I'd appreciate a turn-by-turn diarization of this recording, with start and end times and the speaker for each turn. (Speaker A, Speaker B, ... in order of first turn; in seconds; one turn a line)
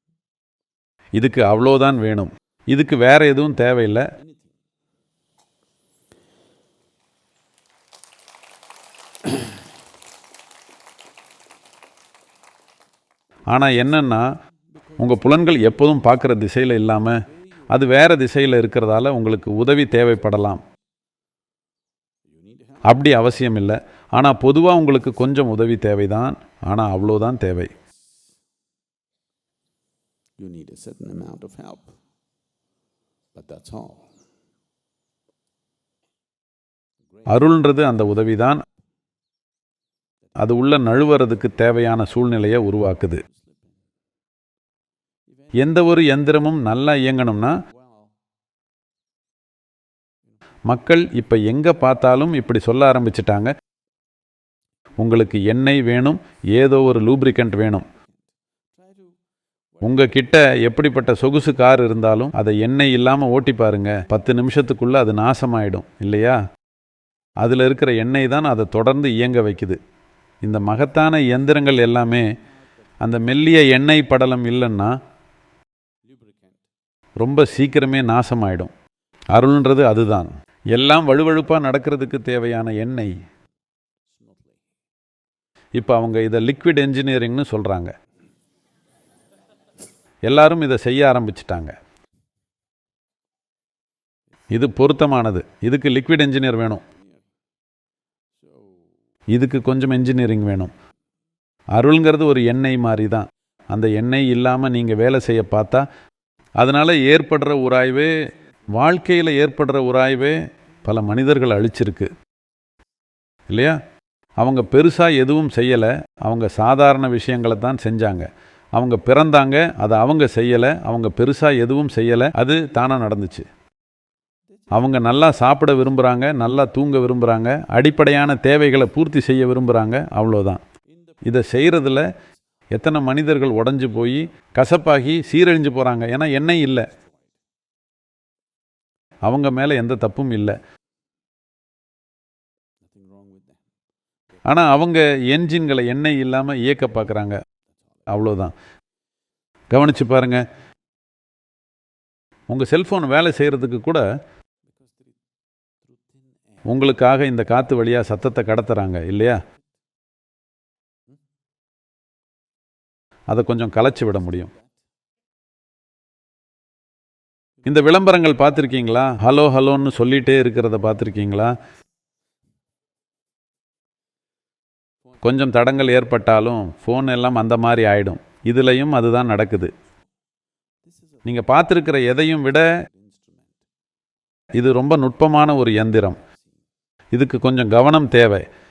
Speaker A: 1.2-4.1
Speaker B: 4.2-4.5
Speaker A: 13.5-14.2
Speaker B: 14.7-15.6
Speaker A: 15.0-20.6
Speaker B: 22.3-23.0
Speaker A: 22.8-27.7
Speaker B: 30.4-31.9
Speaker B: 33.3-34.1
Speaker A: 37.3-38.6
Speaker A: 40.4-43.2
Speaker B: 43.3-43.7
Speaker A: 45.6-47.5
Speaker B: 47.8-48.1
Speaker A: 50.7-53.5
Speaker A: 55.0-57.9
Speaker B: 58.8-59.1
Speaker A: 59.8-66.4
Speaker A: 67.4-69.8
Speaker A: 70.4-72.3
Speaker A: 73.0-75.0
Speaker B: 76.0-76.6
Speaker A: 77.2-78.7
Speaker A: 79.3-83.1
Speaker B: 84.1-84.6
Speaker A: 85.8-87.9
Speaker A: 90.3-91.7
Speaker A: 94.5-96.8
Speaker B: 98.4-98.8
Speaker A: 99.3-100.7
Speaker A: 101.7-105.8
Speaker A: 106.6-108.1
Speaker A: 108.7-112.1
Speaker A: 113.5-113.8
Speaker A: 114.4-123.5
Speaker A: 124.7-130.6
Speaker A: 131.2-132.1
Speaker A: 132.7-136.9
Speaker B: 136.9-137.3
Speaker A: 139.2-140.6
Speaker B: 142.9-143.6
Speaker A: 144.4-147.4
Speaker A: 148.1-148.5
Speaker A: 149.7-150.4
Speaker A: 152.5-154.0
Speaker B: 154.6-155.1
Speaker B: 155.9-156.6
Speaker A: 156.7-159.4
Speaker A: 163.3-164.5
Speaker B: 164.4-164.7
Speaker A: 167.6-171.6
Speaker A: 175.2-179.7
Speaker B: 180.9-181.2
Speaker A: 181.2-182.7
Speaker B: 182.8-183.6
Speaker A: 184.6-186.2
Speaker A: 187.1-188.5